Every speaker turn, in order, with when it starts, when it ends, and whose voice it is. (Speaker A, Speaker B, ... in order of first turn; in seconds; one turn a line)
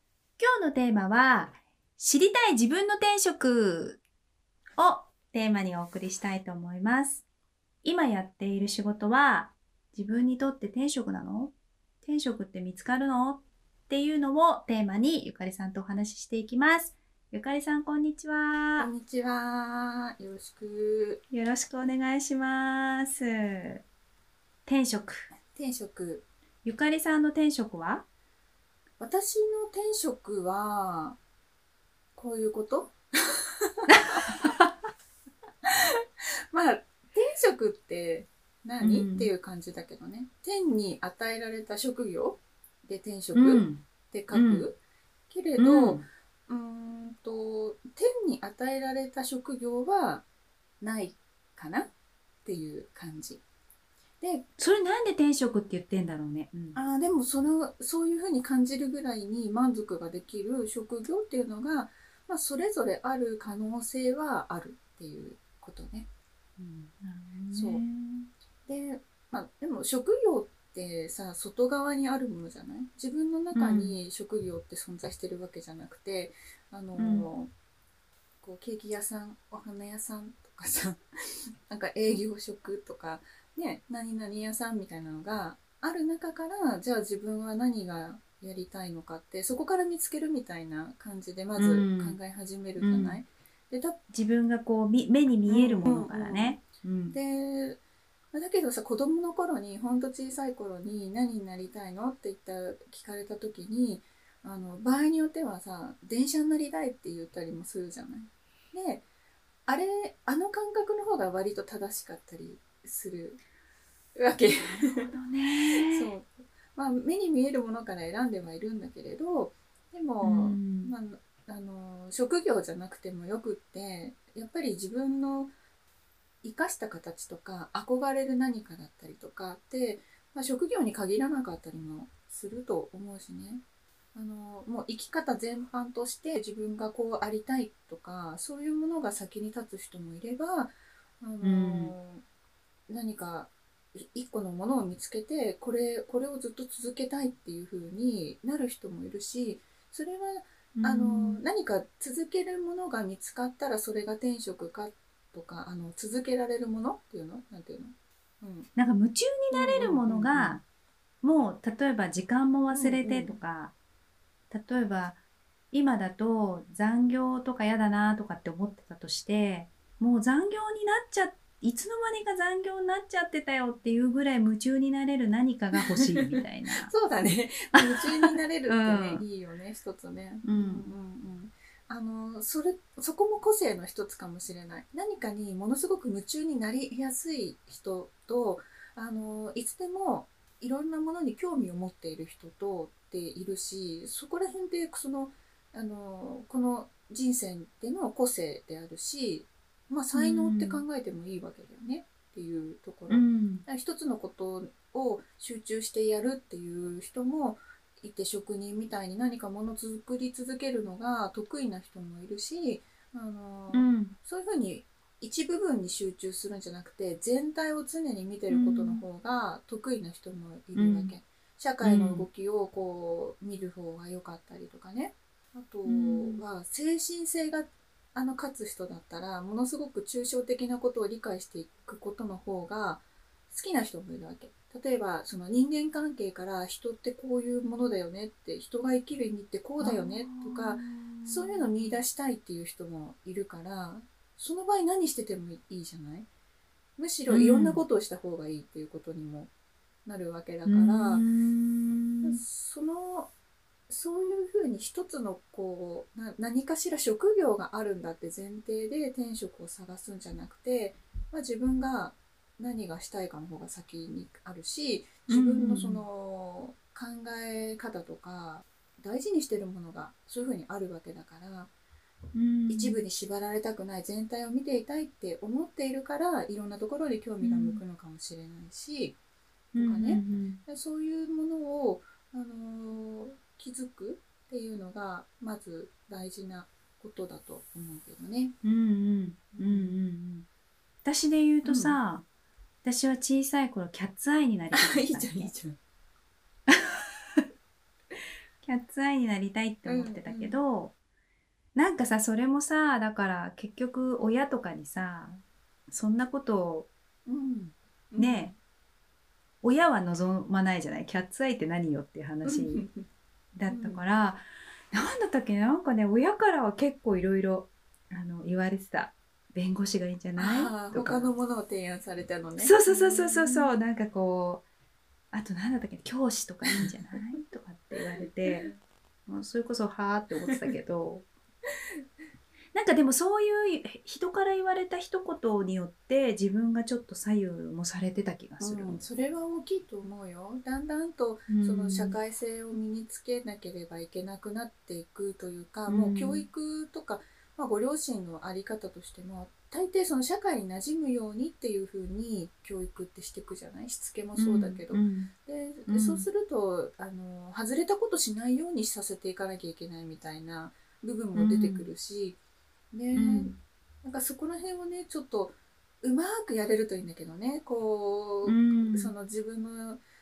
Speaker A: 0.4-4.0
Speaker A: 4.8-7.2
Speaker A: 7.8-18.9
Speaker B: 18.8-21.2
Speaker A: 21.3-23.8
Speaker A: 24.7-25.2
Speaker B: 25.5-26.2
Speaker A: 26.6-28.1
Speaker B: 29.0-31.2
Speaker B: 32.1-33.0
Speaker B: 33.8-34.2
Speaker A: 33.9-34.7
Speaker B: 35.7-44.8
Speaker A: 38.8-39.3
Speaker A: 43.3-44.7
Speaker B: 45.3-50.2
Speaker A: 45.6-46.0
Speaker B: 50.8-51.9
Speaker B: 52.5-53.4
Speaker B: 54.2-54.5
Speaker A: 54.6-56.8
Speaker B: 56.7-66.1
Speaker A: 66.6-68.3
Speaker B: 67.5-67.8
Speaker B: 68.7-77.5
Speaker A: 73.5-74.0
Speaker A: 77.0-77.3
Speaker B: 78.4-94.0
Speaker A: 91.5-92.2
Speaker A: 92.8-93.2
Speaker A: 94.1-97.2
Speaker B: 95.5-97.8
Speaker B: 98.3-109.0
Speaker B: 109.7-113.4
Speaker B: 114.2-115.1
Speaker A: 114.6-116.1
Speaker B: 115.8-125.5
Speaker A: 120.2-120.9
Speaker B: 126.4-133.6
Speaker B: 134.1-142.2
Speaker A: 141.4-141.9
Speaker B: 142.9-158.7
Speaker A: 150.8-151.4
Speaker A: 158.8-160.6
Speaker B: 159.5-160.6
Speaker A: 161.2-163.7
Speaker B: 162.7-163.3
Speaker A: 164.5-165.2
Speaker A: 165.7-176.9
Speaker B: 175.9-176.3
Speaker B: 176.8-246.3
Speaker A: 177.7-179.2
Speaker A: 180.4-180.9
Speaker A: 200.1-200.8
Speaker A: 203.1-203.7
Speaker A: 213.7-214.2
Speaker A: 218.5-219.0
Speaker A: 220.8-221.2
Speaker A: 221.8-222.3
Speaker A: 225.8-226.4
Speaker A: 239.8-242.0
Speaker B: 247.0-249.5
Speaker A: 247.3-247.8
Speaker B: 250.1-251.2
Speaker A: 250.7-252.4
Speaker B: 252.2-253.3
Speaker B: 253.9-271.7
Speaker A: 265.3-266.0
Speaker A: 272.3-273.0
Speaker B: 272.7-279.2
Speaker A: 277.4-277.8
Speaker A: 279.7-280.6
Speaker B: 279.8-288.6
Speaker A: 288.6-290.5
Speaker B: 289.5-290.0
Speaker A: 291.0-292.2
Speaker B: 291.6-292.0
Speaker A: 292.8-295.5
Speaker B: 294.7-295.8
Speaker A: 296.7-297.4
Speaker A: 298.6-300.9
Speaker B: 299.9-300.6
Speaker A: 301.8-306.9
Speaker B: 307.2-308.6
Speaker A: 308.2-308.5
Speaker A: 309.6-312.8
Speaker B: 312.4-313.0
Speaker A: 313.6-321.3
Speaker B: 313.7-314.1
Speaker B: 320.4-323.8
Speaker A: 322.6-324.6
Speaker A: 325.3-328.7
Speaker B: 326.7-327.3
Speaker B: 328.2-328.7
Speaker A: 329.3-331.3
Speaker A: 332.7-339.0
Speaker B: 338.6-362.4
Speaker A: 341.5-342.2
Speaker A: 345.9-346.4
Speaker A: 354.4-355.3
Speaker A: 355.9-356.2
Speaker A: 361.4-361.9
Speaker B: 362.9-370.0
Speaker A: 363.1-363.6
Speaker A: 368.4-369.1